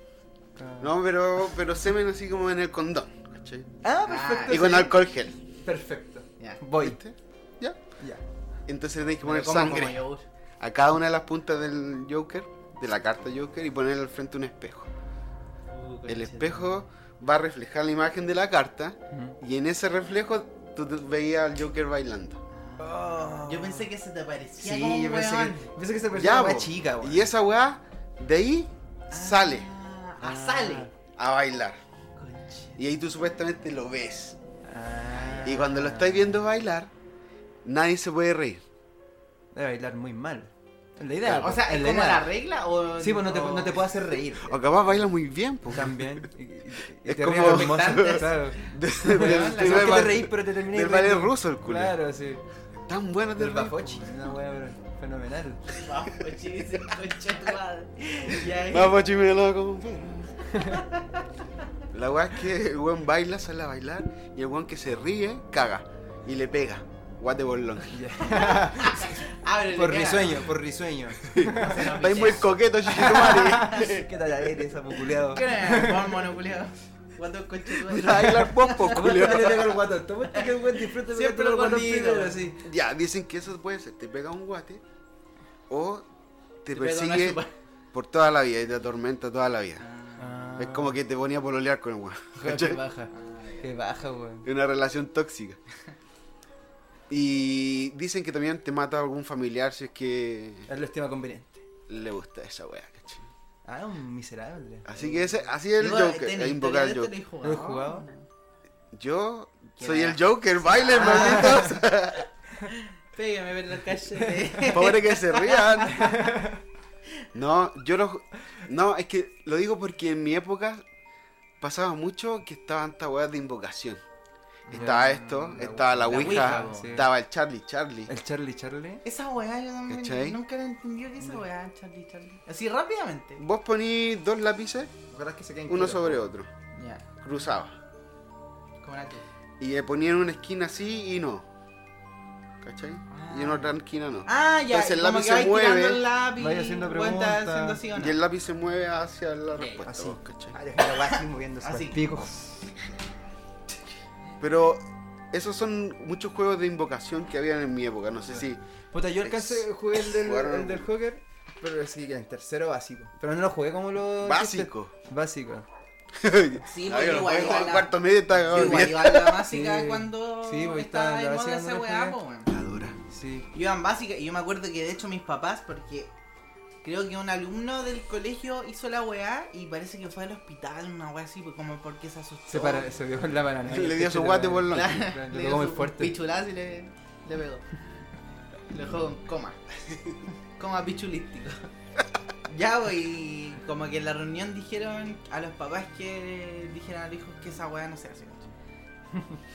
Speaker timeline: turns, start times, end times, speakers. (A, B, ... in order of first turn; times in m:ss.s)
0:00.6-0:01.0 A
0:00.8-0:03.7 B
0:03.8-0:05.0 A
0:04.0-0:05.0 C
0:04.5-0:05.4 B
0:05.6-0:07.0 A
0:06.8-0:07.8 B
0:08.7-0:10.0 B
0:09.2-0:10.2 C
0:10.6-0:14.9 B
0:15.7-0:16.7 C
0:16.0-0:22.4 B
0:19.1-0:19.4 A
0:22.5-0:25.7 C
0:22.8-0:23.9 A
0:24.6-0:27.3 A
0:26.1-0:29.7 B
0:29.1-0:30.9 C
0:30.2-0:30.9 A
0:31.1-0:31.8 B
0:32.2-0:32.8 C
0:32.8-0:34.4 B
0:34.6-0:36.3 A
0:35.1-0:35.8 C
0:35.4-0:36.9 B
0:37.6-0:38.6 B
0:39.5-0:42.3 A
0:41.3-0:44.0 C
0:43.0-0:44.6 A
0:44.4-0:46.3 B
0:45.7-0:52.4 A
0:47.0-0:52.0 B
0:47.3-0:50.3 C
0:52.9-0:54.0 B
0:53.4-0:55.8 A
0:55.7-0:59.0 C
0:58.3-1:00.4 B
1:00.5-1:00.8 A
1:00.6-1:01.0 C
1:01.9-1:08.0 B
1:07.9-1:09.2 A
1:08.2-1:10.5 C
1:09.7-1:11.9 A
1:11.2-1:14.1 B
1:11.4-1:13.8 C
1:13.0-1:16.2 A
1:15.2-1:19.8 C
1:17.7-1:19.7 B
1:18.9-1:22.6 A
1:20.3-1:22.5 C
1:22.6-1:24.8 B
1:25.7-1:26.0 B
1:26.6-1:27.4 B
1:26.7-1:27.5 C
1:27.9-1:29.8 B
1:29.8-1:30.3 C
1:30.2-1:31.0 A
1:30.6-1:32.8 B
1:32.4-1:33.1 A
1:33.1-1:33.7 C
1:33.6-1:34.4 A
1:34.4-1:35.6 B
1:37.1-1:40.7 B
1:40.7-1:41.6 A
1:41.9-1:43.3 B
1:43.6-1:45.3 A
1:44.8-1:47.1 B
1:45.8-1:48.2 C
1:47.4-1:48.1 A
1:48.9-1:52.2 B
1:49.8-1:51.9 C
1:51.0-1:51.7 A
1:52.7-1:56.3 C
1:54.7-1:56.1 B
1:56.0-1:56.6 A
1:57.3-2:00.8 B
2:01.6-2:04.0 B
2:04.7-2:07.1 A
2:04.7-2:08.1 B
2:06.1-2:06.9 C
2:08.1-2:09.0 A
2:09.0-2:13.4 C
2:09.9-2:10.4 B
2:13.4-2:14.9 B
2:15.1-2:16.2 A
2:15.7-2:16.5 B
2:16.8-2:17.0 C
2:17.2-2:17.7 B
2:18.8-2:19.2 C
2:19.6-2:21.4 B
2:22.6-2:26.0 B
2:23.1-2:23.7 A
2:24.2-2:28.2 C
2:26.4-2:27.8 A
2:27.9-2:30.6 B
2:29.5-2:29.8 C
2:29.8-2:32.7 A
2:31.6-2:32.0 C
2:34.4-2:38.6 B
2:38.3-2:45.7 A
2:39.2-2:40.9 B
2:44.2-2:44.9 B
2:46.1-2:49.4 B
2:46.7-2:52.5 C
2:48.3-2:48.9 A
2:49.5-2:52.2 A
2:52.5-2:53.0 B
2:53.1-2:53.4 A
2:53.5-2:56.1 C
2:56.8-3:02.9 C
3:02.5-3:06.1 A
3:03.7-3:05.0 B
3:04.7-3:07.6 C
3:08.7-3:09.6 C
3:10.6-3:11.7 C
3:12.5-3:18.5 C
3:19.1-3:19.4 A